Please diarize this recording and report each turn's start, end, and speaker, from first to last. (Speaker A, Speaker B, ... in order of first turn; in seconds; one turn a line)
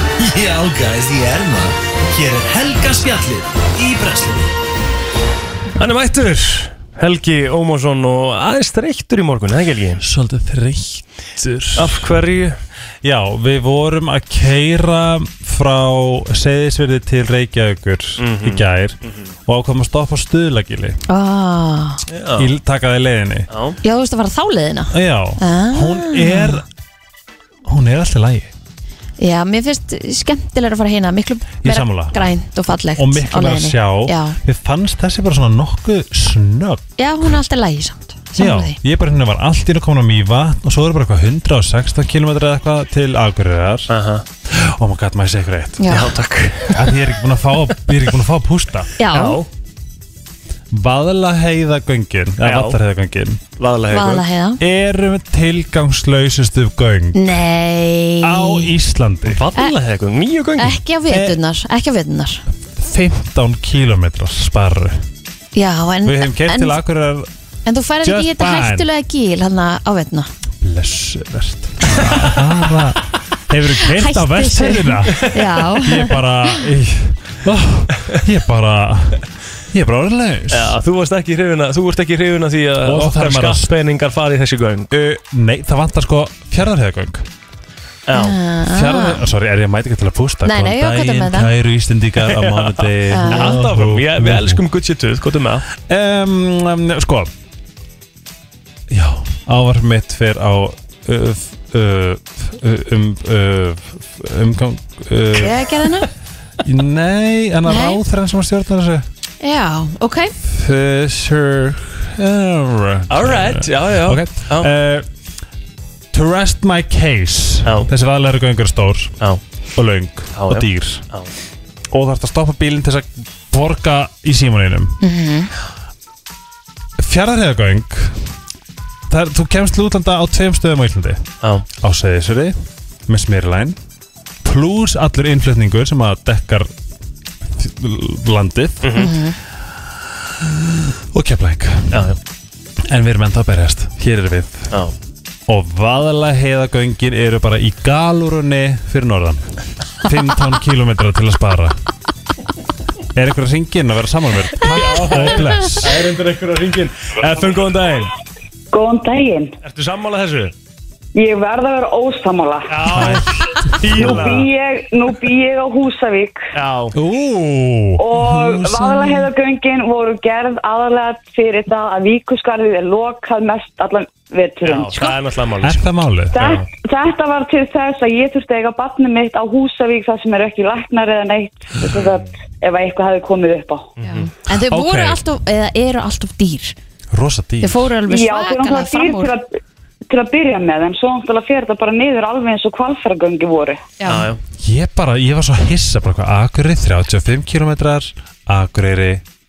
Speaker A: 0.2-4.5
Speaker B: 5.8-10.0
Speaker C: 10.0-12.1
Speaker B: 11.7-12.6
Speaker C: 13.0-21.0
Speaker B: 18.2-19.1
Speaker D: 21.1-22.0
Speaker B: 22.1-22.5
Speaker C: 22.4-23.5
Speaker B: 23.5-23.8
Speaker D: 23.8-26.6
Speaker C: 24.9-26.6
Speaker C: 27.6-28.5
Speaker D: 29.2-34.4
Speaker C: 31.6-32.3
Speaker C: 33.0-36.8
Speaker D: 37.0-38.8
Speaker C: 38.4-43.9
Speaker B: 43.9-44.2
Speaker C: 44.5-45.9
Speaker D: 45.8-46.1
Speaker B: 45.9-47.0
Speaker C: 46.7-48.9
Speaker D: 49.0-49.4
Speaker B: 49.1-49.5
Speaker C: 50.7-53.4
Speaker B: 52.4-52.8
Speaker B: 53.6-54.2
Speaker D: 53.9-54.6
Speaker C: 54.6-57.2
Speaker D: 57.1-58.7
Speaker C: 58.2-59.4
Speaker B: 59.2-60.8
Speaker D: 60.6-62.4
Speaker C: 61.1-61.4
Speaker C: 62.8-65.0
Speaker D: 65.5-66.8
Speaker C: 66.0-67.3
Speaker D: 67.7-70.3
Speaker C: 68.0-68.9
Speaker C: 70.6-80.8
Speaker D: 73.8-76.6
Speaker B: 80.5-85.0
Speaker C: 82.8-83.7
Speaker C: 84.9-87.2
Speaker B: 88.1-88.4
Speaker D: 88.1-89.2
Speaker C: 88.6-94.6
Speaker D: 90.4-91.5
Speaker B: 92.2-95.6
Speaker D: 93.1-93.6
Speaker C: 95.8-97.3
Speaker C: 98.9-105.7
Speaker D: 105.3-106.1
Speaker C: 106.6-109.0
Speaker D: 107.7-108.0
Speaker D: 109.4-110.3
Speaker C: 110.5-115.0
Speaker B: 113.1-114.7
Speaker C: 116.1-119.1
Speaker B: 117.6-117.9
Speaker C: 119.8-121.0
Speaker B: 120.3-121.3
Speaker C: 121.9-125.0
Speaker D: 125.0-125.5
Speaker C: 127.0-128.2
Speaker C: 129.1-131.2
Speaker C: 131.8-132.6
Speaker C: 133.1-133.8
Speaker C: 134.4-136.7
Speaker C: 137.6-139.2
Speaker B: 138.8-139.1
Speaker D: 138.9-139.3
Speaker C: 140.2-142.1
Speaker B: 141.9-142.2
Speaker C: 142.9-144.7
Speaker C: 145.5-151.8
Speaker C: 153.1-156.1
Speaker B: 154.6-158.1
Speaker E: 158.7-159.6
Speaker B: 159.6-160.5
Speaker E: 161.1-162.9
Speaker B: 162.7-164.5
Speaker C: 162.9-164.3
Speaker E: 163.8-166.4
Speaker B: 166.5-166.9
Speaker C: 166.9-169.3
Speaker E: 168.0-175.1
Speaker B: 174.6-175.8
Speaker C: 175.6-176.5
Speaker E: 176.3-183.9
Speaker B: 184.0-184.3
Speaker D: 184.0-186.7
Speaker C: 184.5-185.2
Speaker C: 187.1-187.9
Speaker D: 187.6-189.3
Speaker E: 188.0-189.6
Speaker E: 190.1-193.8
Speaker D: 194.0-194.3
Speaker B: 194.0-194.4
Speaker C: 194.6-199.2